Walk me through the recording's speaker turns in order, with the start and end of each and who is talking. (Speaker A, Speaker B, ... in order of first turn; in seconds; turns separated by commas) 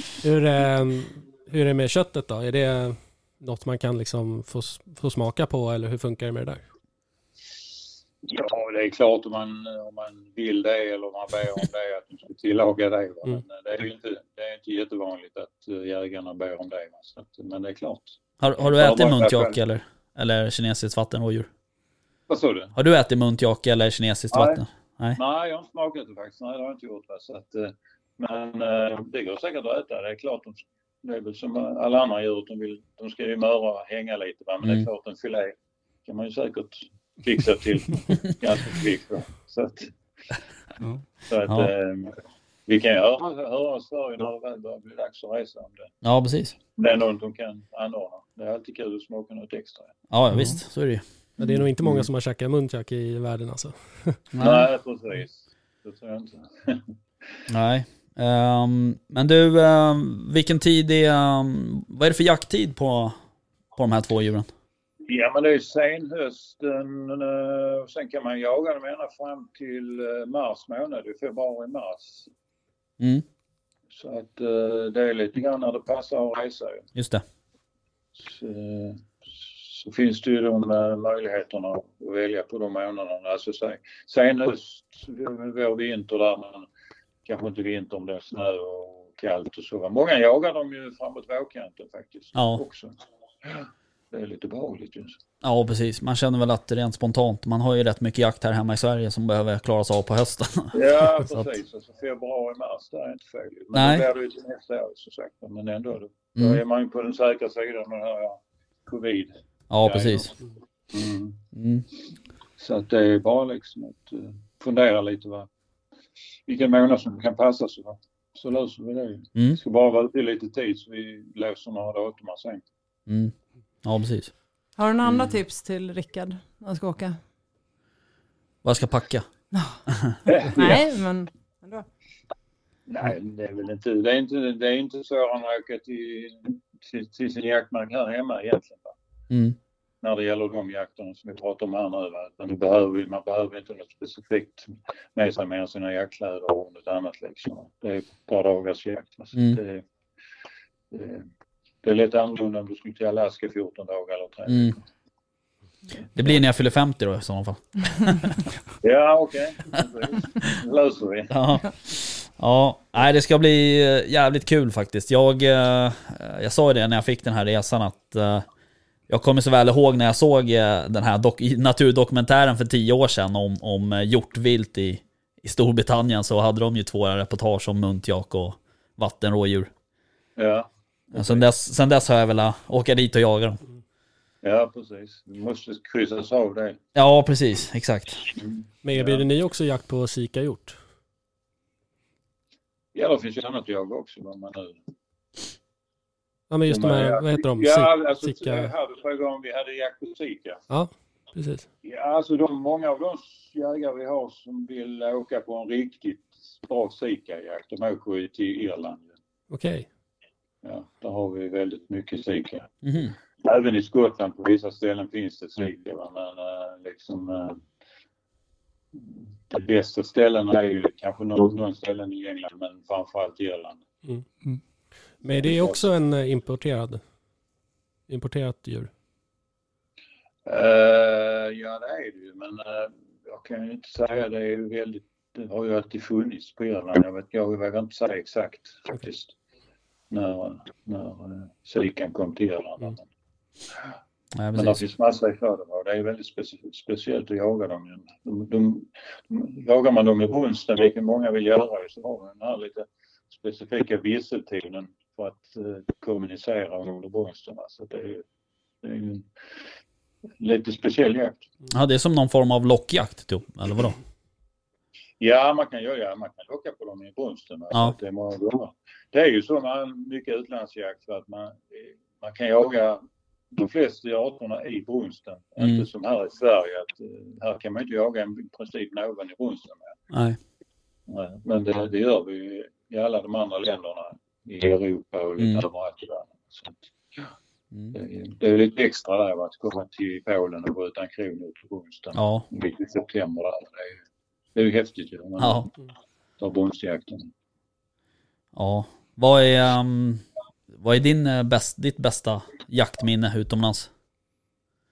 Speaker A: 0.2-6.6, Speaker B: 8.2-19.6, Speaker C: 18.4-21.5, Speaker B: 22.3-22.7, Speaker C: 22.8-25.2, Speaker B: 24.3-24.6, Speaker B: 25.1-35.5, Speaker B: 36.0-39.9, Speaker B: 41.3-42.1, Speaker B: 42.7-45.9, Speaker C: 46.0-46.6, Speaker B: 46.7-49.9, Speaker C: 50.1-51.0, Speaker A: 51.4-54.2, Speaker C: 54.3-54.7, Speaker B: 54.4-56.9, Speaker C: 57.5-63.2, Speaker C: 63.8-64.5, Speaker B: 65.1-72.3, Speaker C: 73.0-73.2, Speaker B: 73.9-76.8, Speaker C: 77.0-77.2, Speaker B: 78.2-86.7, Speaker B: 87.2-95.2, Speaker C: 92.3-92.6, Speaker C: 95.4-101.4, Speaker B: 100.7-110.3, Speaker C: 103.7-104.1, Speaker C: 106.4-106.6, Speaker C: 109.7-110.3, Speaker B: 110.9-111.4, Speaker C: 111.5-111.8, Speaker B: 112.6-115.5, Speaker B: 116.5-122.6, Speaker C: 123.1-123.3, Speaker C: 123.8-124.3, Speaker D: 124.8-127.2, Speaker C: 128.6-129.3, Speaker C: 129.9-130.2, Speaker B: 130.2-130.8, Speaker D: 130.4-131.9, Speaker B: 132.9-138.9, Speaker C: 139.3-139.6, Speaker B: 140.0-149.8, Speaker C: 149.3-149.6, Speaker B: 150.9-151.3, Speaker B: 151.8-154.8, Speaker C: 154.5-154.7, Speaker C: 156.2-158.4, Speaker B: 158.8-161.3, Speaker C: 161.3-168.5, Speaker C: 169.1-179.7, Speaker B: 180.4-181.5, Speaker C: 181.1-183.6, Speaker B: 184.4-186.8, Speaker C: 186.9-188.3, Speaker B: 188.4-189.2, Speaker A: 188.8-190.8, Speaker B: 192.9-194.8, Speaker A: 196.5-198.7, Speaker B: 196.7-200.6, Speaker A: 200.7-201.7, Speaker B: 201.8-209.1, Speaker A: 209.5-209.9, Speaker B: 210.6-212.7, Speaker C: 212.8-213.1, Speaker B: 213.4-217.6, Speaker B: 218.9-223.8, Speaker A: 225.2-227.0, Speaker B: 225.3-225.8, Speaker A: 228.1-228.9, Speaker B: 230.5-239.3, Speaker B: 240.1-243.1, Speaker C: 244.4-244.8, Speaker B: 244.5-258.2, Speaker B: 258.8-259.3, Speaker B: 260.4-261.5, Speaker C: 261.7-264.0, Speaker B: 265.2-279.9, Speaker C: 280.1-280.4, Speaker B: 281.1-287.3, Speaker C: 285.4-285.6, Speaker B: 287.9-294.0, Speaker C: 292.1-292.5, Speaker B: 294.6-295.8, Speaker C: 295.4-295.7, Speaker B: 296.4-297.3, Speaker C: 298.6-300.2, Speaker C: 300.8-303.9